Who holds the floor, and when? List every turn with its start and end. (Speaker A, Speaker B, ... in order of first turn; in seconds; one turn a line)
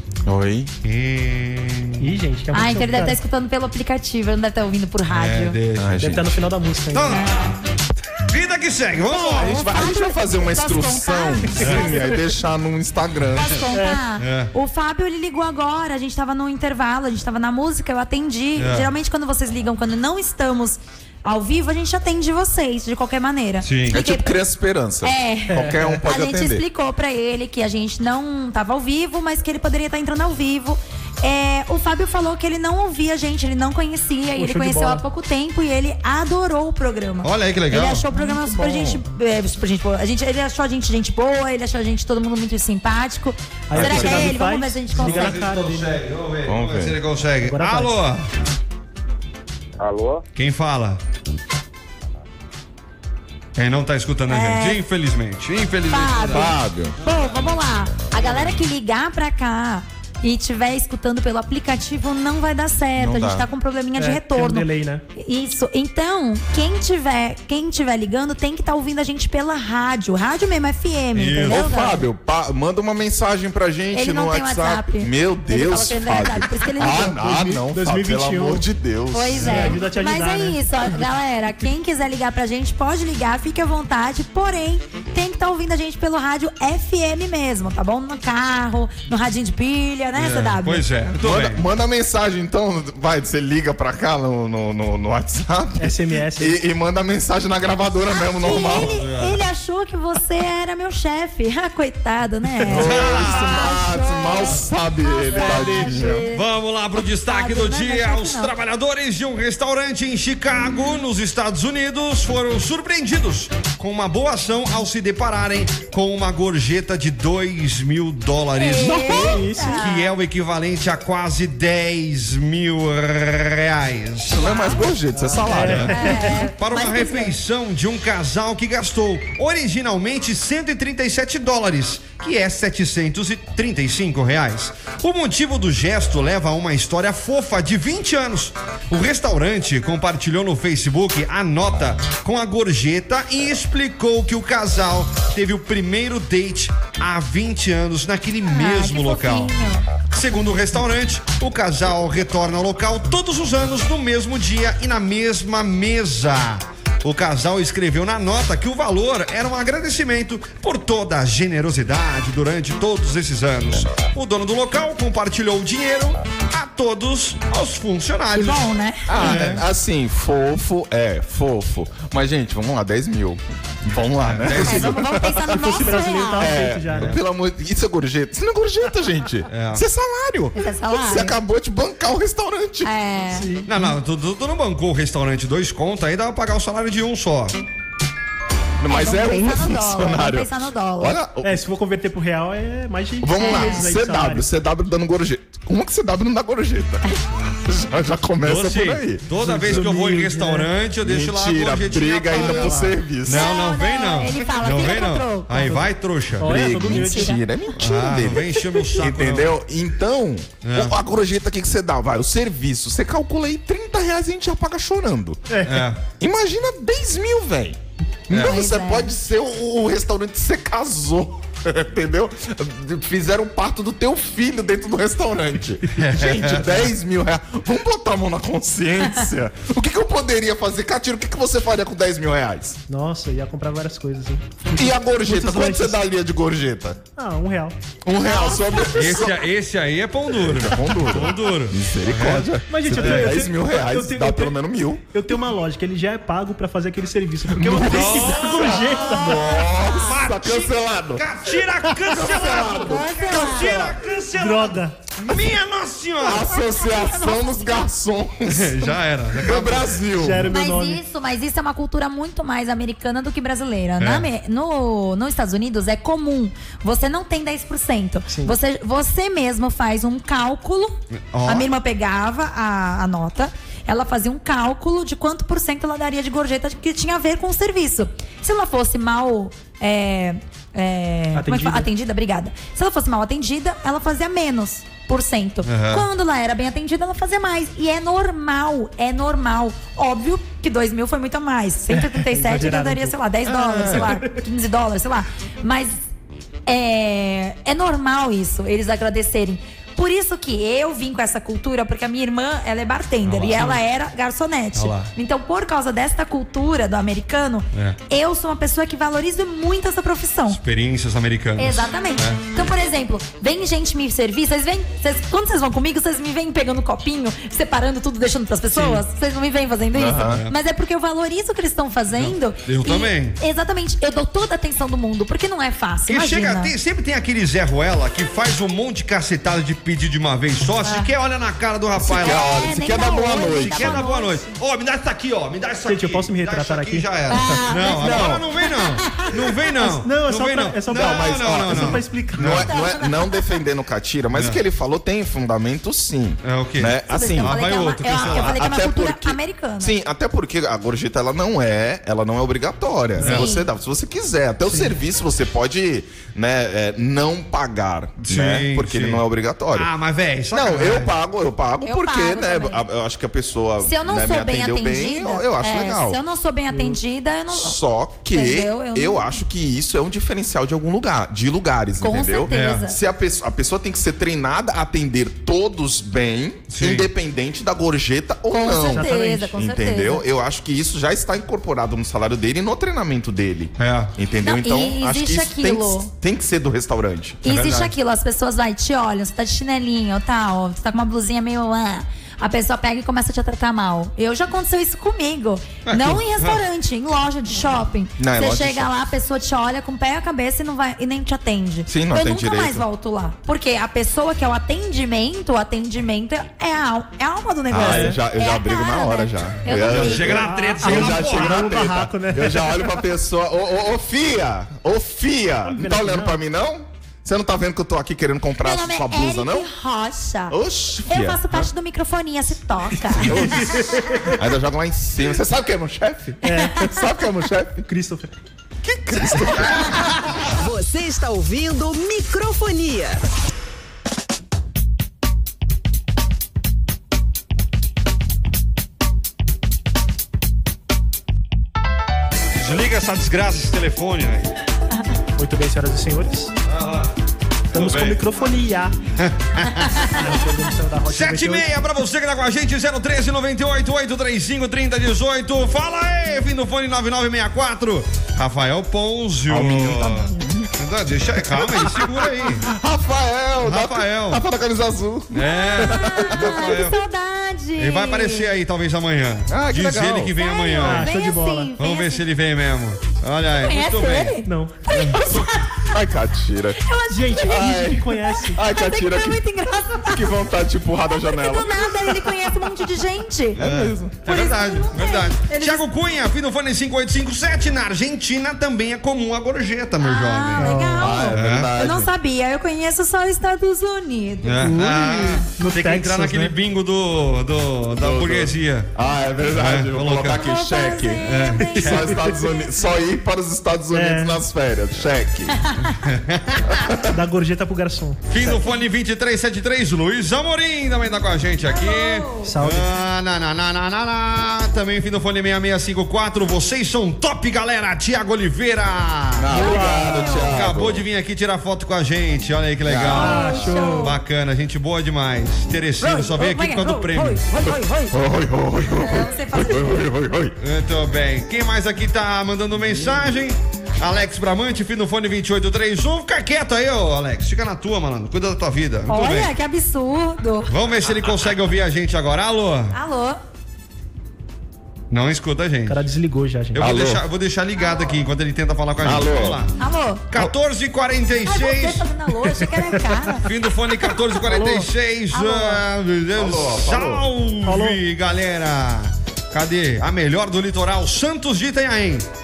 Speaker A: 0.2-0.7
Speaker B: 0.8-2.1
Speaker C: 2.0-3.2
Speaker D: 2.5-5.6
Speaker B: 5.1-6.2
Speaker A: 5.8-6.4
Speaker C: 6.0-7.2
Speaker B: 6.9-7.4
Speaker D: 7.1-7.6
Speaker B: 8.2-9.6
Speaker D: 9.1-12.1
Speaker A: 9.3-13.6
Speaker C: 11.5-12.2
Speaker B: 11.6-11.9
Speaker D: 13.3-24.4
Speaker C: 13.7-14.0
Speaker B: 14.2-14.5
Speaker B: 18.6-18.9
Speaker B: 23.6-24.0
Speaker A: 23.9-26.6
Speaker D: 25.0-45.4
Speaker C: 25.5-26.0
Speaker C: 34.4-35.0
Speaker B: 37.2-38.1
Speaker C: 43.7-46.0
Speaker A: 43.7-44.4
Speaker B: 44.9-48.3
Speaker A: 46.5-47.0
Speaker C: 47.4-48.0
Speaker B: 50.4-51.0
Speaker B: 53.6-56.5
Speaker D: 54.3-54.8
Speaker D: 55.9-72.0
Speaker A: 56.2-57.0
Speaker A: 63.0-63.5
Speaker C: 64.0-65.0
Speaker B: 71.2-71.6
Speaker A: 71.5-79.8
Speaker D: 73.9-77.4
Speaker C: 77.1-78.6
Speaker D: 79.1-90.8
Speaker C: 79.4-80.7
Speaker B: 90.2-91.7
Speaker A: 91.2-99.0
Speaker C: 95.8-96.6
Speaker D: 98.2-106.5
Speaker B: 98.8-99.4
Speaker A: 102.7-106.2
Speaker B: 102.7-103.6
Speaker C: 105.3-106.2
Speaker B: 106.3-124.5
Speaker D: 107.1-108.5
Speaker D: 118.6-120.1
Speaker A: 118.8-119.5
Speaker C: 118.9-119.8
Speaker A: 124.3-126.2
Speaker C: 125.1-126.5
Speaker B: 125.5-149.6
Speaker D: 125.9-127.3
Speaker D: 148.5-149.9
Speaker B: 150.1-169.7
Speaker D: 168.3-169.4
Speaker A: 169.1-182.9
Speaker B: 174.2-175.0
Speaker D: 174.5-176.6
Speaker C: 175.5-177.2
Speaker B: 176.9-177.2
Speaker B: 179.5-179.8
Speaker D: 180.6-181.4
Speaker D: 182.8-183.5
Speaker C: 183.3-183.9
Speaker B: 183.7-187.6
Speaker A: 188.8-191.6
Speaker D: 188.9-191.2
Speaker C: 191.4-194.4
Speaker A: 193.2-199.3
Speaker D: 193.3-193.9
Speaker B: 198.4-206.7
Speaker C: 199.4-200.7
Speaker A: 201.0-203.5
Speaker D: 202.3-202.7
Speaker C: 202.4-202.9
Speaker D: 203.3-205.7
Speaker C: 205.6-205.8
Speaker C: 206.4-207.4
Speaker A: 206.4-215.4
Speaker D: 206.8-207.4
Speaker B: 207.8-209.6
Speaker D: 208.7-209.0
Speaker B: 210.6-211.0
Speaker C: 215.5-215.9
Speaker B: 215.6-216.0
Speaker A: 216.2-232.8
Speaker B: 218.3-218.6
Speaker D: 218.3-219.1
Speaker B: 226.0-226.9
Speaker C: 232.9-236.0
Speaker A: 234.8-237.0
Speaker C: 237.2-237.8
Speaker A: 238.0-239.4
Speaker D: 238.2-239.1
Speaker B: 238.9-243.4
Speaker A: 240.3-245.0
Speaker C: 242.7-244.6
Speaker C: 245.1-249.6
Speaker A: 247.5-251.3
Speaker B: 247.8-249.2
Speaker D: 249.8-250.1
Speaker B: 249.9-256.6
Speaker A: 252.0-254.0
Speaker D: 252.4-253.9
Speaker C: 254.4-254.9
Speaker A: 256.2-260.6
Speaker D: 256.7-257.8
Speaker B: 258.5-260.0
Speaker C: 260.1-261.0
Speaker D: 260.5-296.0
Speaker B: 264.0-264.3
Speaker C: 268.3-268.6
Speaker B: 271.3-271.7
Speaker C: 281.3-281.9
Speaker B: 285.7-286.1
Speaker C: 291.9-293.2
Speaker B: 293.6-294.1
Speaker C: 293.8-294.3
Speaker D: 296.7-310.6
Speaker B: 303.2-303.8
Speaker B: 304.8-305.1
Speaker B: 310.5-312.4
Speaker D: 311.6-326.7
Speaker C: 318.7-319.0
Speaker A: 319.9-320.4
Speaker B: 320.2-320.5
Speaker B: 322.2-323.4
Speaker B: 326.1-332.5
Speaker D: 330.8-331.1
Speaker A: 332.0-334.0
Speaker D: 332.1-334.6
Speaker B: 333.4-342.6
Speaker C: 335.9-337.1
Speaker D: 337.3-339.3
Speaker A: 337.6-338.4
Speaker C: 339.8-342.7
Speaker A: 340.9-359.9
Speaker D: 342.6-343.6
Speaker B: 344.3-344.6
Speaker B: 346.4-348.6
Speaker D: 347.1-349.9
Speaker D: 353.2-353.7
Speaker C: 354.7-354.9
Speaker B: 358.2-361.1
Speaker A: 360.5-366.2
Speaker D: 361.8-362.8
Speaker D: 363.8-369.4
Speaker C: 366.7-367.0
Speaker A: 367.5-387.6
Speaker D: 372.0-373.0
Speaker B: 372.5-372.9
Speaker B: 376.7-377.1
Speaker D: 378.5-380.2
Speaker C: 378.8-379.5
Speaker B: 383.8-384.1
Speaker D: 384.4-386.1
Speaker D: 387.4-410.4
Speaker B: 387.5-387.9
Speaker B: 395.9-396.6
Speaker A: 398.2-398.9
Speaker A: 401.9-402.9
Speaker A: 407.7-419.7
Speaker C: 407.7-408.2
Speaker B: 409.7-411.8
Speaker C: 410.3-413.0
Speaker C: 415.7-416.4
Speaker D: 418.6-423.6
Speaker A: 420.5-421.6
Speaker A: 423.1-427.9
Speaker C: 423.3-424.4
Speaker C: 426.4-427.2
Speaker C: 427.9-428.4
Speaker A: 428.8-430.3
Speaker E: 430.5-433.2
Speaker B: 442.6-444.5
Speaker C: 445.4-446.5
Speaker B: 446.7-447.1
Speaker B: 447.7-448.2
Speaker C: 447.7-449.0
Speaker B: 449.2-450.3
Speaker C: 450.0-451.7
Speaker B: 451.1-462.7
Speaker A: 459.5-460.7
Speaker A: 461.5-466.8
Speaker B: 463.6-464.4
Speaker B: 465.3-467.0
Speaker D: 465.5-468.5
Speaker B: 467.8-471.1
Speaker A: 469.5-470.4
Speaker D: 470.4-472.2
Speaker C: 470.8-471.7
Speaker B: 471.8-474.4
Speaker D: 473.6-475.9
Speaker C: 474.4-474.8
Speaker B: 474.9-475.4
Speaker A: 475.8-476.8
Speaker D: 476.8-477.8
Speaker C: 477.1-478.6
Speaker A: 477.4-479.4
Speaker D: 478.4-480.3
Speaker A: 480.0-482.3
Speaker D: 481.2-483.6
Speaker A: 483.6-484.2
Speaker B: 483.6-490.7
Speaker D: 484.2-485.8
Speaker D: 490.0-494.7
Speaker C: 490.6-491.2
Speaker A: 491.0-492.1
Speaker B: 491.3-491.7
Speaker B: 494.4-498.9
Speaker C: 494.6-496.5
Speaker A: 497.9-505.6
Speaker B: 499.5-500.4
Speaker D: 500.3-502.4
Speaker B: 501.2-502.2
Speaker C: 503.9-504.4
Speaker D: 505.6-506.0
Speaker B: 505.9-506.8
Speaker A: 506.7-507.1
Speaker C: 507.1-508.2
Speaker B: 508.3-519.7
Speaker D: 511.7-512.5
Speaker C: 512.4-512.9
Speaker A: 519.4-521.1
Speaker C: 519.5-520.3
Speaker D: 519.5-520.6
Speaker B: 520.2-527.4
Speaker A: 522.9-523.8
Speaker C: 523.1-524.1
Speaker D: 523.1-524.2
Speaker D: 526.0-528.2
Speaker A: 527.7-530.6
Speaker D: 528.9-530.0
Speaker B: 530.6-539.5
Speaker D: 539.1-540.7
Speaker B: 540.7-543.0
Speaker D: 542.9-543.4
Speaker B: 545.1-546.0
Speaker C: 545.9-546.9
Speaker B: 546.7-549.7
Speaker A: 546.8-547.2
Speaker A: 549.0-549.6
Speaker D: 549.8-550.2
Speaker B: 550.3-552.1
Speaker D: 551.5-553.5
Speaker C: 552.5-553.3
Speaker B: 553.4-562.3
Speaker C: 554.5-554.9
Speaker D: 555.3-555.8
Speaker A: 556.4-557.3
Speaker C: 557.6-558.0